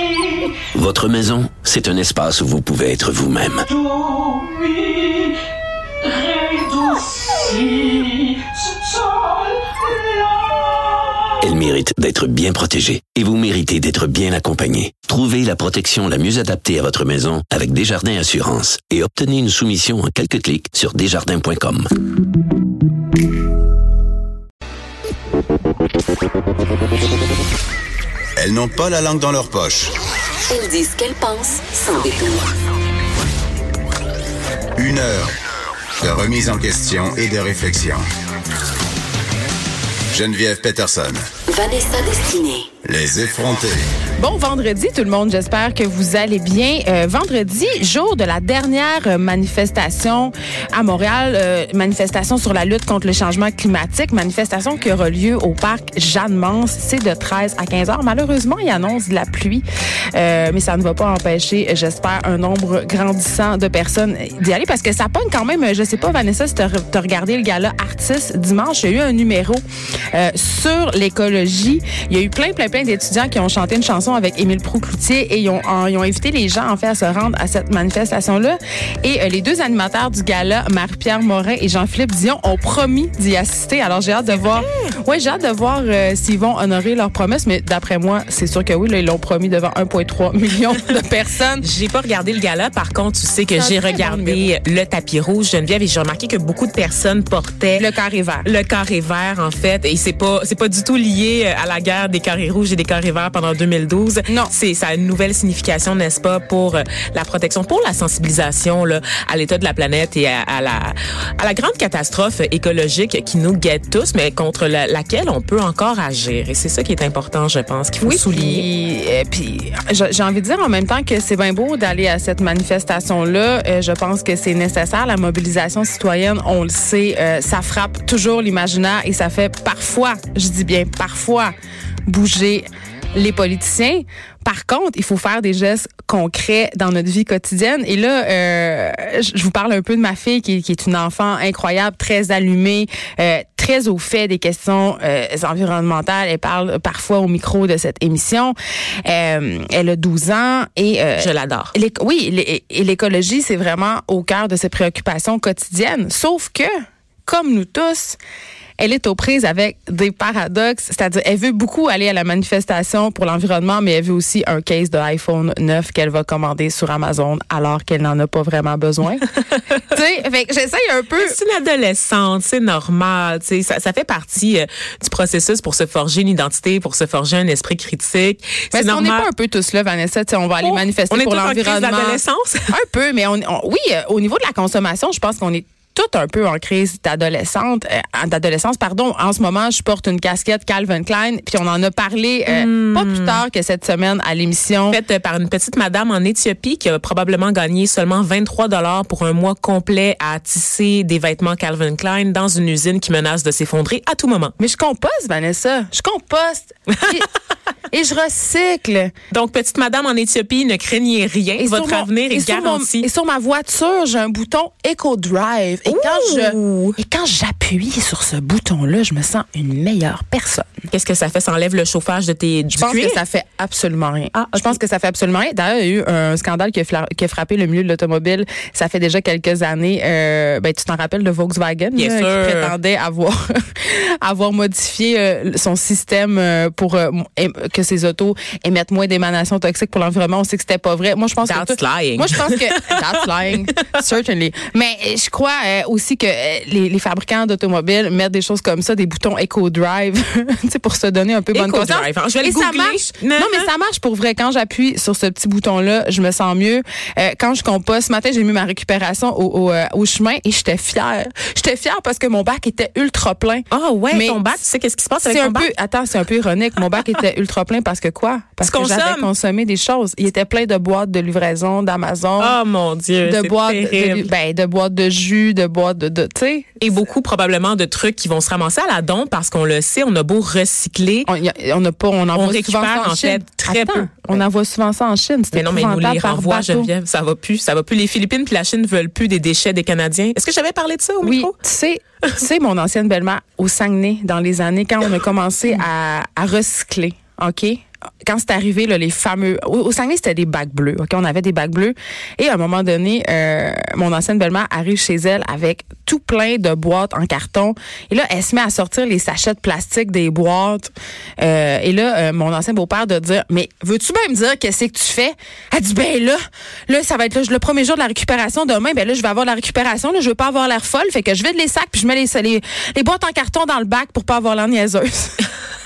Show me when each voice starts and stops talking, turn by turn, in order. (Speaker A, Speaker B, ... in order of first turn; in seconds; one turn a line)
Speaker A: 0.7-3.7
Speaker B: 4.0-4.3
Speaker B: 6.9-7.8
Speaker A: 11.4-21.9
Speaker C: 28.4-29.9
Speaker D: 30.5-32.5
Speaker C: 34.8-35.3
Speaker C: 36.0-38.0
Speaker C: 40.1-41.2
Speaker D: 41.5-42.7
Speaker C: 42.8-43.8
Speaker E: 44.2-91.7
Speaker B: 84.3-84.9
Speaker B: 91.6-97.8
Speaker E: 93.6-94.5
Speaker E: 97.8-98.5
Speaker B: 98.4-118.7
Speaker E: 118.0-131.6
Speaker E: 132.1-158.2
Speaker B: 151.2-151.7
Speaker E: 158.8-169.3
Speaker E: 169.9-171.4
Speaker B: 171.2-179.3
Speaker E: 178.7-195.0
Speaker B: 180.6-182.7
Speaker B: 192.5-193.4
Speaker B: 194.9-204.6
Speaker E: 204.6-207.3
Speaker B: 207.0-207.2
Speaker E: 207.9-209.1
Speaker B: 209.3-213.1
Speaker E: 211.6-220.7
Speaker B: 215.9-217.0
Speaker B: 220.9-223.2
Speaker E: 222.8-264.4
Speaker B: 224.3-224.8
Speaker B: 232.0-232.7
Speaker B: 241.4-243.9
Speaker B: 251.5-253.7
Speaker B: 263.7-265.7
Speaker E: 265.2-272.6
Speaker B: 268.6-269.3
Speaker B: 272.4-274.3
Speaker E: 273.2-276.7
Speaker B: 276.8-281.3
Speaker E: 281.3-286.9
Speaker B: 282.3-284.4
Speaker B: 285.5-291.5
Speaker E: 291.2-325.4